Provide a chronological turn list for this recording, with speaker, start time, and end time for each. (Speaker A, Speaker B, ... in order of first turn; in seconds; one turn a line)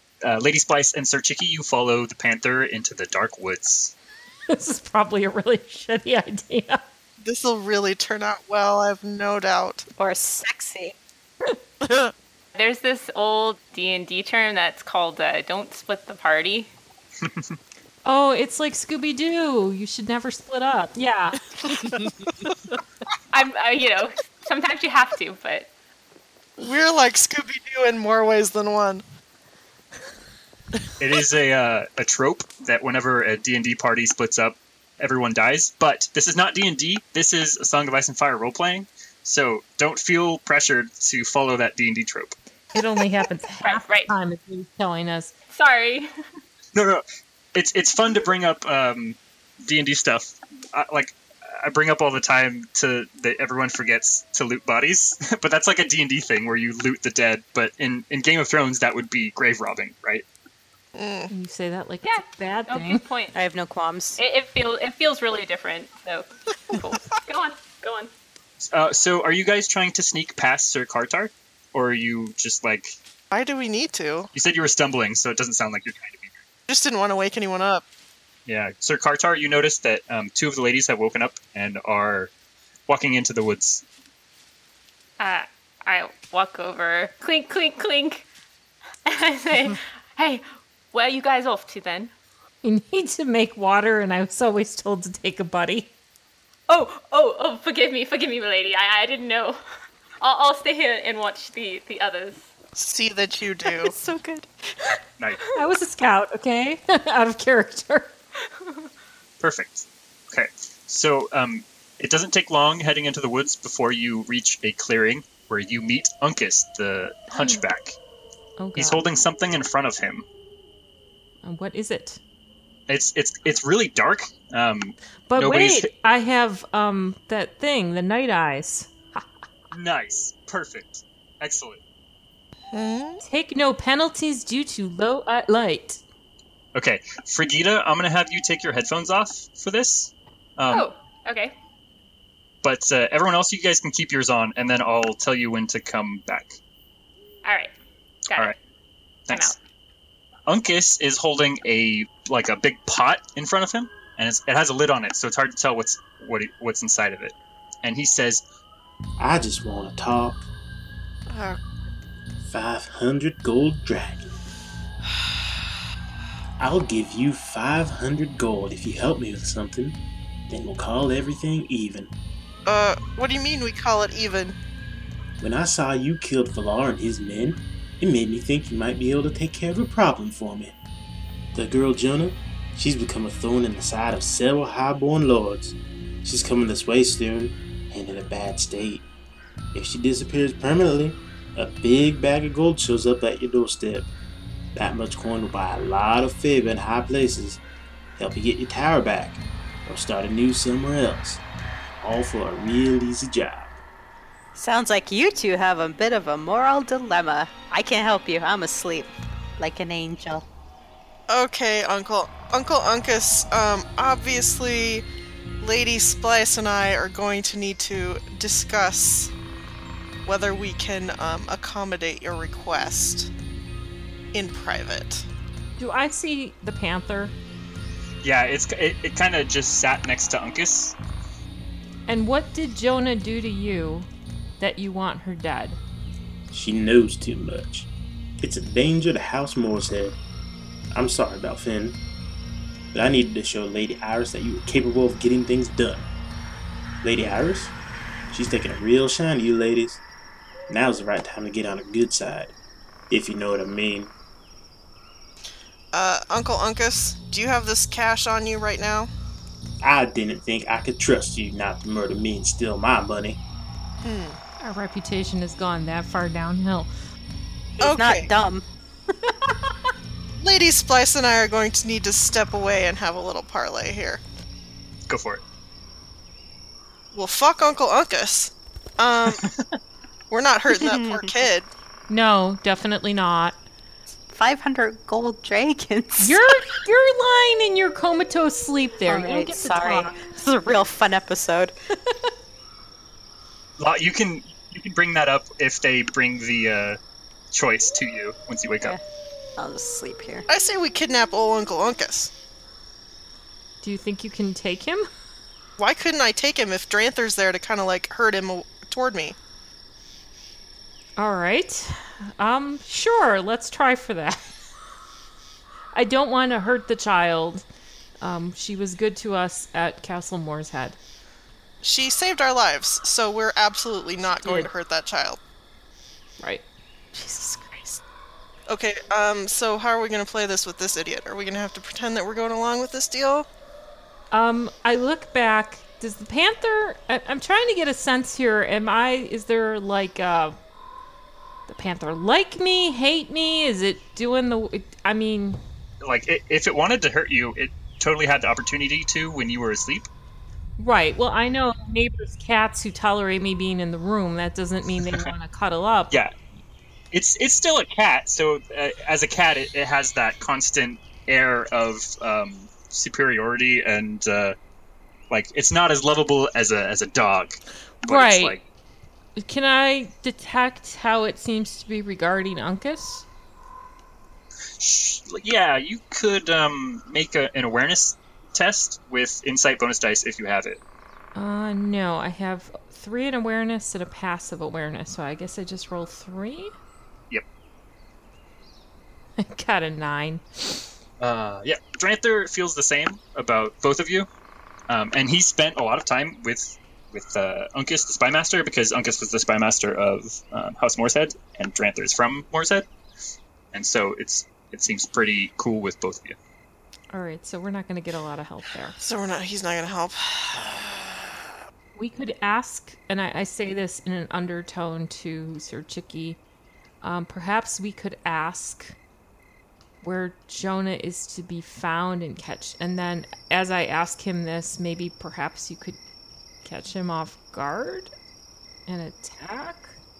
Speaker A: 0.2-3.9
Speaker B: 4.5-6.8
Speaker C: 7.2-9.8
Speaker D: 10.0-10.9
Speaker E: 12.5-16.7
Speaker A: 17.2-17.6
Speaker B: 18.0-21.4
Speaker E: 23.3-25.7
Speaker C: 26.6-29.0
Speaker A: 31.0-42.3
Speaker B: 42.7-45.3
Speaker E: 43.6-44.1
Speaker E: 45.5-46.1
Speaker A: 46.7-47.0
Speaker A: 47.5-60.2
Speaker C: 60.9-61.3
Speaker B: 61.3-63.0
Speaker E: 62.0-63.4
Speaker D: 63.3-64.2
Speaker E: 64.2-68.1
Speaker A: 68.7-72.9
Speaker C: 73.3-74.3
Speaker A: 74.3-76.3
Speaker C: 76.7-77.8
Speaker A: 78.5-82.3
Speaker A: 82.9-83.8
Speaker E: 85.2-88.3
Speaker E: 89.0-92.1
Speaker B: 92.6-95.9
Speaker E: 96.7-99.6
Speaker E: 100.2-102.5
Speaker C: 102.8-103.9
Speaker D: 103.6-105.0
Speaker B: 105.5-108.1
Speaker A: 109.4-118.0
Speaker B: 118.6-119.0
Speaker A: 118.7-120.2
Speaker B: 121.4-122.2
Speaker A: 122.9-125.9
Speaker B: 125.3-129.2
Speaker A: 129.7-131.8
Speaker C: 132.7-133.2
Speaker B: 133.2-136.0
Speaker A: 136.7-140.9
Speaker E: 140.7-141.5
Speaker A: 142.6-146.6
Speaker E: 147.4-147.7
Speaker E: 148.3-148.6
Speaker A: 149.3-149.5
Speaker E: 149.3-149.6
Speaker A: 150.5-158.4
Speaker F: 159.2-160.4
Speaker C: 161.3-161.6
Speaker F: 162.4-164.3
Speaker F: 166.6-169.9
Speaker F: 170.5-172.1
Speaker C: 172.7-174.6
Speaker F: 175.4-180.7
Speaker F: 181.5-189.0
Speaker F: 189.7-194.1
Speaker F: 194.7-197.6
Speaker F: 198.2-201.4
Speaker F: 202.0-203.8
Speaker D: 204.5-210.4
Speaker C: 211.3-215.0
Speaker C: 215.6-219.3
Speaker C: 220.2-223.3
Speaker C: 224.3-225.2
Speaker B: 225.8-227.3
Speaker A: 228.2-230.9
Speaker B: 232.1-235.8
Speaker F: 236.5-237.9
Speaker F: 238.4-240.2
Speaker F: 240.9-242.0
Speaker F: 242.9-246.1
Speaker F: 247.0-247.7
Speaker F: 248.3-250.0
Speaker F: 250.7-252.5
Speaker F: 253.1-254.1
Speaker C: 255.9-259.1
Speaker F: 259.8-263.4
Speaker C: 264.0-264.4
Speaker B: 264.6-266.9
Speaker D: 267.8-268.6
Speaker C: 267.8-268.3
Speaker C: 270.4-274.2
Speaker A: 275.1-275.4
Speaker C: 277.1-279.4
Speaker C: 280.3-281.7
Speaker D: 280.7-281.3
Speaker B: 282.1-283.6
Speaker D: 284.3-286.4
Speaker B: 286.2-290.1
Speaker D: 289.1-291.7
Speaker A: 293.8-297.0
Speaker A: 297.5-299.0
Speaker D: 299.6-300.4
Speaker C: 300.5-302.3
Speaker B: 303.8-305.1
Speaker C: 305.8-309.4
Speaker B: 311.2-314.5
Speaker B: 315.9-317.6
Speaker B: 318.2-321.0
Speaker C: 321.8-325.4
Speaker B: 324.3-324.7
Speaker B: 326.4-326.6
Speaker D: 327.1-328.0
Speaker C: 328.7-333.4
Speaker B: 334.3-340.6
Speaker B: 341.7-345.6
Speaker A: 346.0-350.1
Speaker B: 350.8-356.2
Speaker A: 357.1-364.6
Speaker A: 365.3-368.6
Speaker B: 368.0-368.6
Speaker B: 369.4-373.2
Speaker A: 374.8-380.8
Speaker B: 381.3-386.7
Speaker B: 389.4-390.8
Speaker A: 391.2-394.3
Speaker A: 394.9-402.9
Speaker A: 403.7-406.4
Speaker B: 407.1-409.0
Speaker C: 409.0-411.4
Speaker B: 411.9-416.4
Speaker B: 417.0-418.9
Speaker B: 420.0-426.0
Speaker B: 426.6-428.1
Speaker B: 428.9-430.0